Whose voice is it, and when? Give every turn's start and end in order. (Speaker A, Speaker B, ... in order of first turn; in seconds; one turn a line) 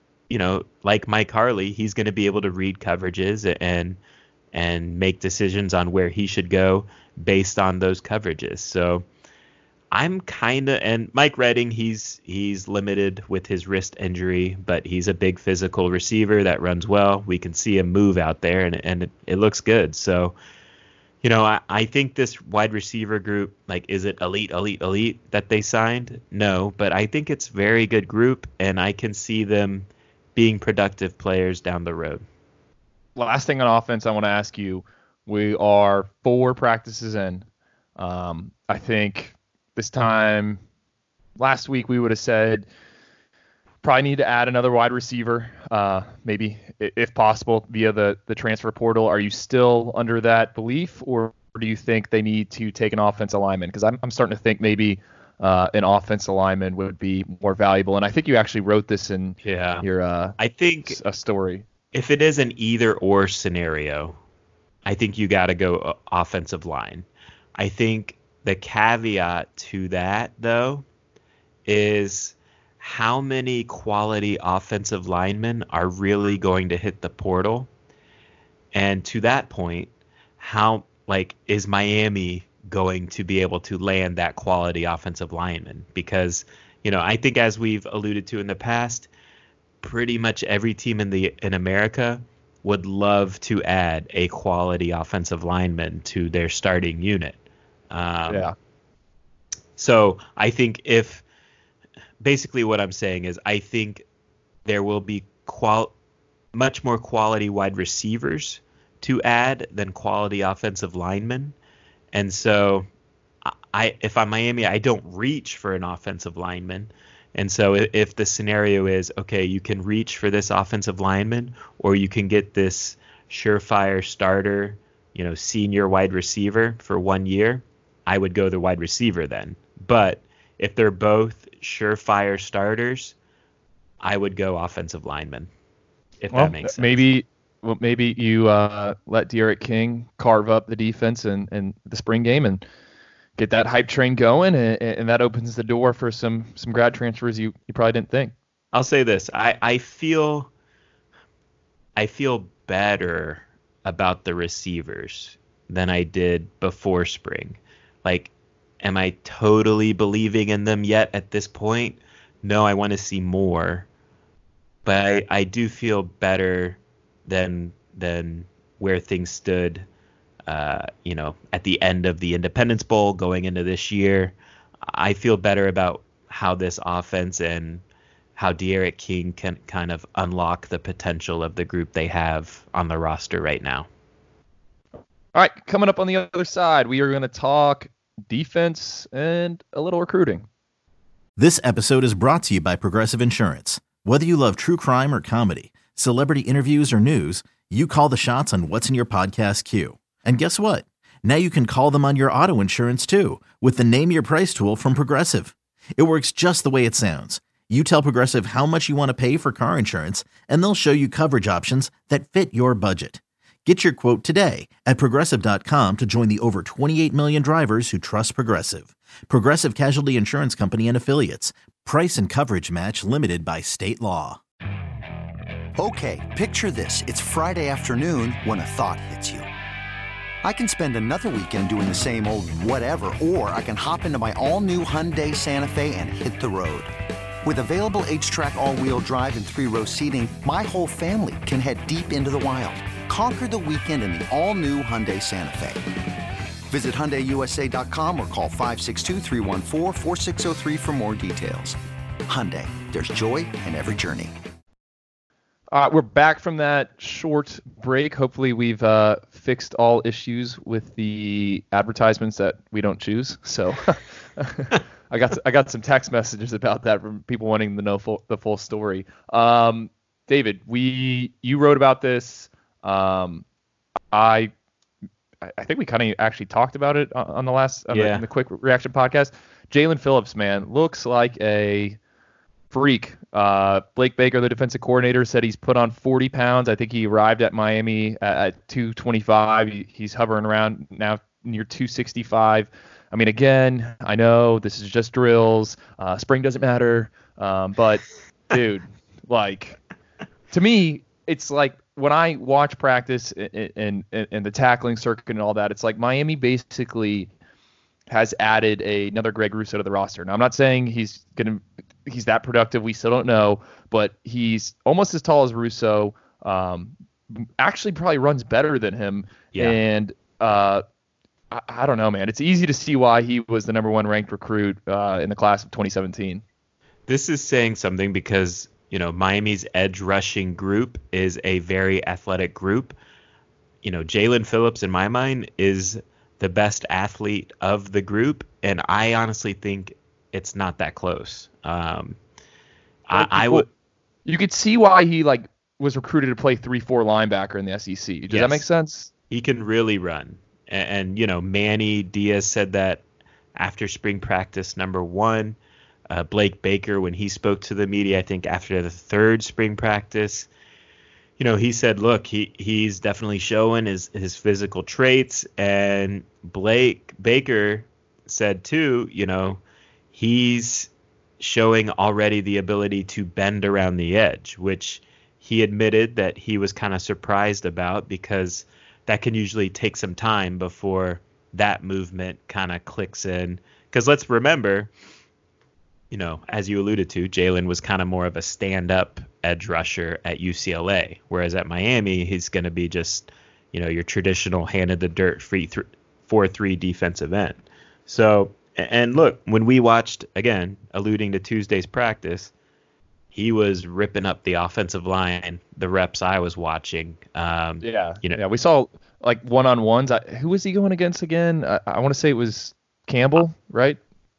Speaker A: 0.3-4.0
Speaker A: 4.5-9.0
Speaker A: 9.9-20.3
Speaker A: 21.2-32.2
Speaker B: 33.2-37.4
Speaker B: 38.0-40.6
Speaker B: 41.4-42.7
Speaker B: 43.8-61.6
Speaker A: 59.4-59.8
Speaker A: 60.4-61.0
Speaker A: 61.9-64.2
Speaker A: 64.8-70.8
Speaker A: 71.7-77.7
Speaker A: 78.7-89.1
Speaker A: 89.8-97.4
Speaker A: 97.9-98.5
Speaker B: 98.3-98.5
Speaker A: 99.8-101.2
Speaker A: 102.2-104.0
Speaker A: 104.7-105.9
Speaker A: 106.5-111.5
Speaker A: 112.1-112.9
Speaker A: 113.4-133.1
Speaker A: 134.0-135.5
Speaker A: 136.2-137.0
Speaker B: 136.3-142.6
Speaker B: 143.4-148.3
Speaker A: 148.7-150.5
Speaker A: 151.9-163.8
Speaker A: 164.8-169.8
Speaker A: 170.4-174.3
Speaker A: 174.9-177.8
Speaker A: 178.3-183.9
Speaker B: 185.3-190.5
Speaker C: 191.4-224.4
Speaker D: 225.8-229.5
Speaker D: 230.4-236.9
Speaker D: 237.4-245.8
Speaker D: 246.7-254.3
Speaker B: 255.7-273.4
Speaker B: 274.1-274.5
Speaker B: 275.4-282.0
Speaker A: 277.9-278.2
Speaker B: 282.7-299.8
Speaker B: 300.5-307.3
Speaker B: 308.1-320.8
Speaker B: 321.5-326.4
Speaker A: 327.1-332.9
Speaker A: 333.8-342.2
Speaker A: 343.1-343.7
Speaker B: 343.1-343.6
Speaker B: 344.2-349.1
Speaker A: 348.3-348.6
Speaker A: 349.3-353.0
Speaker A: 353.6-355.6
Speaker A: 356.1-360.5
Speaker A: 361.4-369.6
Speaker A: 370.1-384.9
Speaker A: 386.1-402.5
Speaker A: 403.3-408.4
Speaker B: 407.8-414.0